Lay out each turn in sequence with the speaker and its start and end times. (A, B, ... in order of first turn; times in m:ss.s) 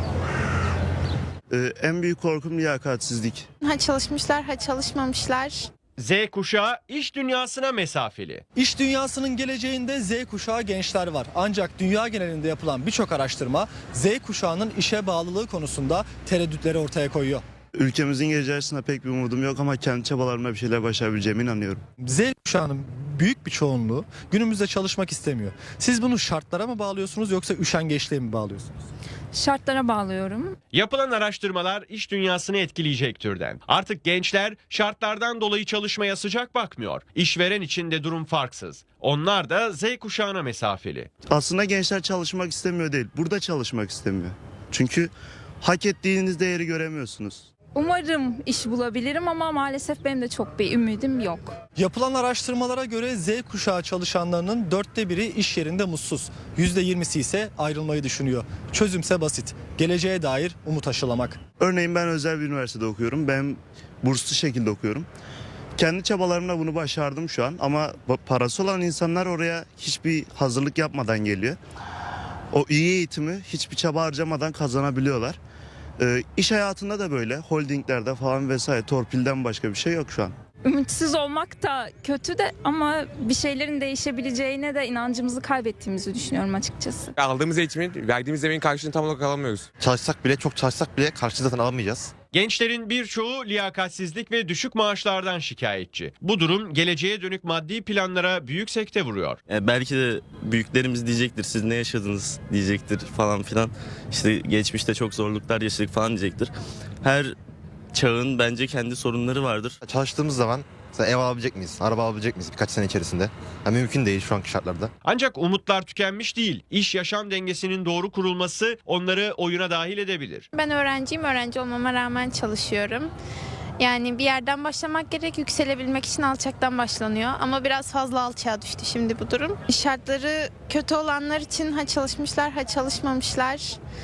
0:01.5-0:03.5 A
0:03.7-0:05.7 B
0:06.0-0:08.4 C
0:08.6-0:17.4 D
0:17.8-0:21.8 A
0:22.0-0:28.7 D
0:29.3-0:30.6 E
0:30.7-0:41.1 C
0:41.3-0:47.5 A
0:47.8-0:51.6 E
0:51.8-1:01.4 D
1:01.6-1:05.1 A
1:05.8-1:11.6 A
1:12.5-1:15.4 A
1:16.0-1:20.4 A
1:20.6-1:27.1 E
1:27.2-1:29.7 F
1:29.8-1:32.1 G
1:32.3-1:39.4 C
1:39.5-1:46.5 H
1:47.0-1:47.4 H
1:47.9-1:49.8 H
1:49.8-1:54.9 G
1:55.0-2:00.5 C
2:00.6-2:03.1 B
2:03.8-2:13.8 B